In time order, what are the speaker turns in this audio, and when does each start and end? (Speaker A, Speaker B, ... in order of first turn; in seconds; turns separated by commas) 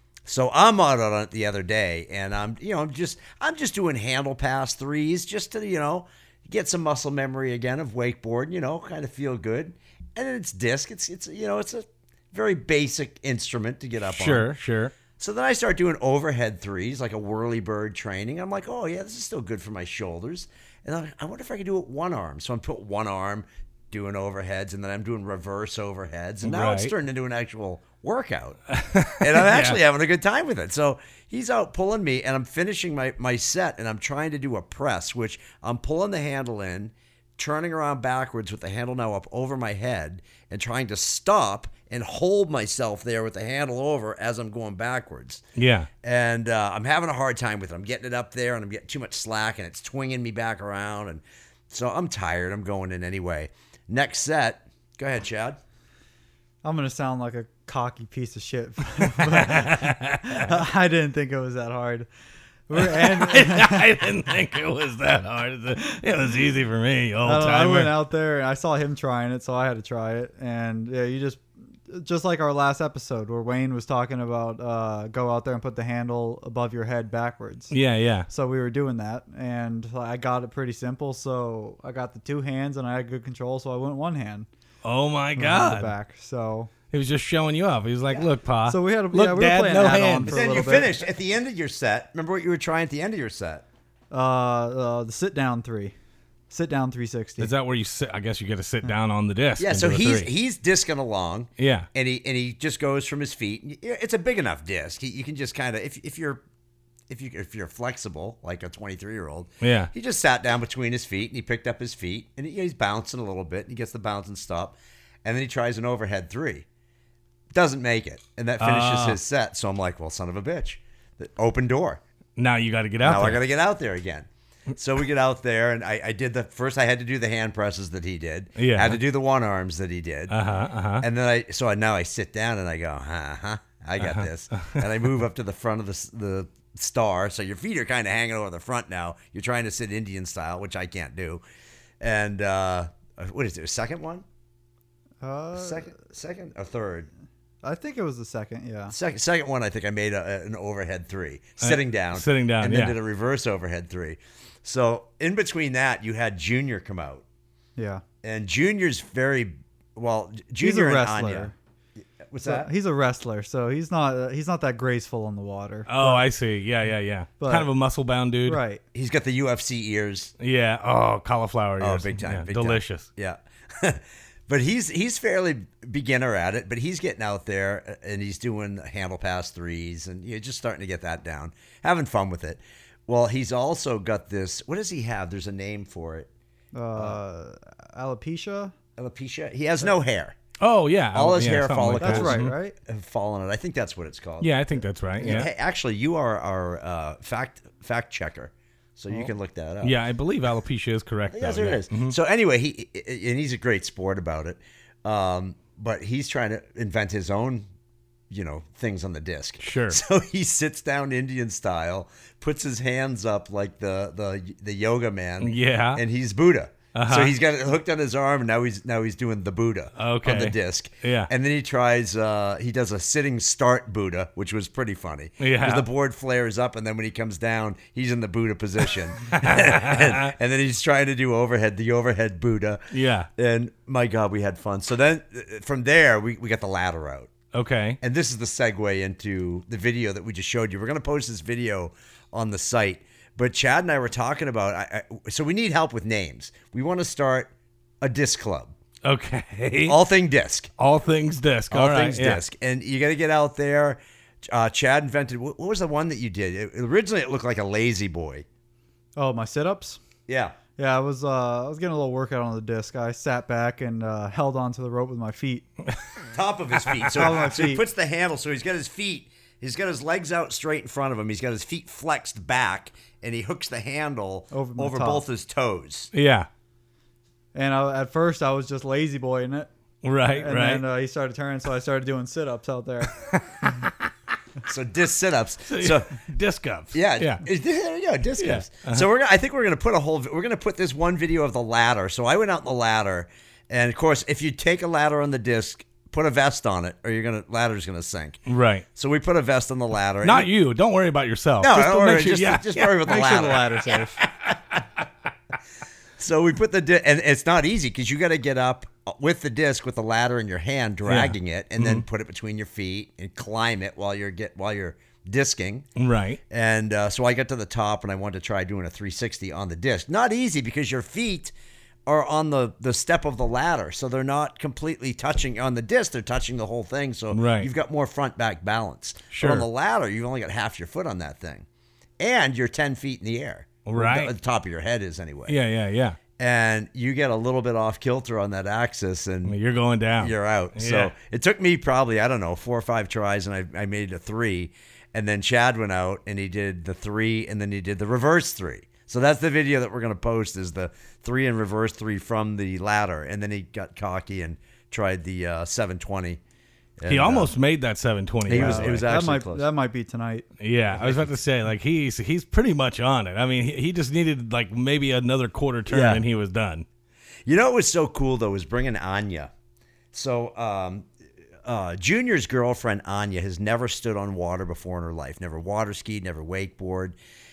Speaker A: 0.2-14.5, Speaker B: 14.1-14.9, Speaker A: 15.2-28.6, Speaker B: 26.4-26.9, Speaker B: 28.7-29.8, Speaker A: 29.2-45.4, Speaker B: 45.6-45.9, Speaker A: 46.0-55.6, Speaker C: 56.6-62.1, Speaker B: 59.1-60.4, Speaker C: 62.7-64.1, Speaker B: 62.8-68.0, Speaker C: 67.2-77.7, Speaker B: 77.7-78.3, Speaker C: 78.3-84.5, Speaker B: 84.8-85.9, Speaker C: 85.3-86.7, Speaker B: 86.9-90.4, Speaker C: 88.7-91.0, Speaker A: 90.3-93.6, Speaker C: 94.1-95.9, Speaker C: 96.5-97.5, Speaker B: 97.4-100.3, Speaker A: 99.6-106.4, Speaker B: 101.6-101.9, Speaker A: 107.1-116.7, Speaker B: 109.6-109.9, Speaker A: 117.5-122.0, Speaker B: 118.6-119.2, Speaker B: 122.4-123.4, Speaker A: 123.0-130.3, Speaker B: 128.6-129.0, Speaker B: 130.3-131.1, Speaker A: 131.0-141.4, Speaker B: 134.0-134.8, Speaker A: 142.0-144.2, Speaker C: 145.2-145.9, Speaker A: 145.6-147.1, Speaker C: 147.6-148.9, Speaker A: 148.9-157.2, Speaker B: 151.6-152.9, Speaker C: 157.8-158.0, Speaker A: 158.2-161.5, Speaker C: 160.6-161.5, Speaker A: 162.2-162.7, Speaker C: 162.4-166.2, Speaker B: 165.9-168.6, Speaker C: 167.4-167.7, Speaker C: 168.4-168.8, Speaker A: 168.9-170.3, Speaker B: 170.4-173.1, Speaker A: 171.8-186.3, Speaker C: 186.7-188.7, Speaker A: 189.0-190.4, Speaker B: 190.6-192.5, Speaker A: 191.1-194.5, Speaker C: 192.0-192.7, Speaker B: 194.4-195.5, Speaker A: 195.2-200.0, Speaker B: 199.8-202.2, Speaker A: 201.3-207.7, Speaker A: 208.3-237.3, Speaker B: 209.6-210.0, Speaker B: 215.4-216.0, Speaker B: 216.9-217.3, Speaker B: 220.0-221.3, Speaker B: 225.4-225.8, Speaker B: 229.3-230.3, Speaker B: 232.9-233.3, Speaker B: 237.5-238.0, Speaker A: 238.0-248.7, Speaker B: 249.0-250.0, Speaker A: 249.8-250.7, Speaker B: 250.8-252.4, Speaker A: 251.7-258.4, Speaker C: 259.1-260.0, Speaker A: 260.3-260.6, Speaker C: 260.8-265.7, Speaker A: 266.2-276.1, Speaker B: 267.0-267.4, Speaker C: 267.1-267.8, Speaker C: 274.5-275.2, Speaker B: 276.1-276.5, Speaker C: 277.5-279.7, Speaker B: 280.0-280.8, Speaker C: 280.3-283.3, Speaker B: 283.2-284.1, Speaker A: 284.6-286.1, Speaker B: 285.7-287.4, Speaker A: 286.9-298.4, Speaker B: 288.4-289.1, Speaker B: 298.5-298.8, Speaker A: 298.9-300.5, Speaker B: 300.2-303.4, Speaker A: 301.6-303.9, Speaker C: 303.0-304.2, Speaker A: 306.2-315.9, Speaker B: 311.1-312.0, Speaker B: 316.0-316.4, Speaker A: 316.5-321.5, Speaker A: 322.1-331.6, Speaker B: 327.3-327.7, Speaker B: 329.3-329.6, Speaker A: 332.2-335.6, Speaker B: 333.9-334.3, Speaker B: 335.5-336.2, Speaker A: 336.4-339.6, Speaker B: 339.4-341.1, Speaker A: 340.2-356.4, Speaker A: 357.0-357.5, Speaker B: 357.1-359.1, Speaker A: 358.5-359.6, Speaker C: 358.5-360.4, Speaker B: 360.6-366.9, Speaker A: 360.9-361.3, Speaker A: 365.9-366.2, Speaker A: 367.4-369.5, Speaker A: 370.1-371.1, Speaker A: 371.6-377.1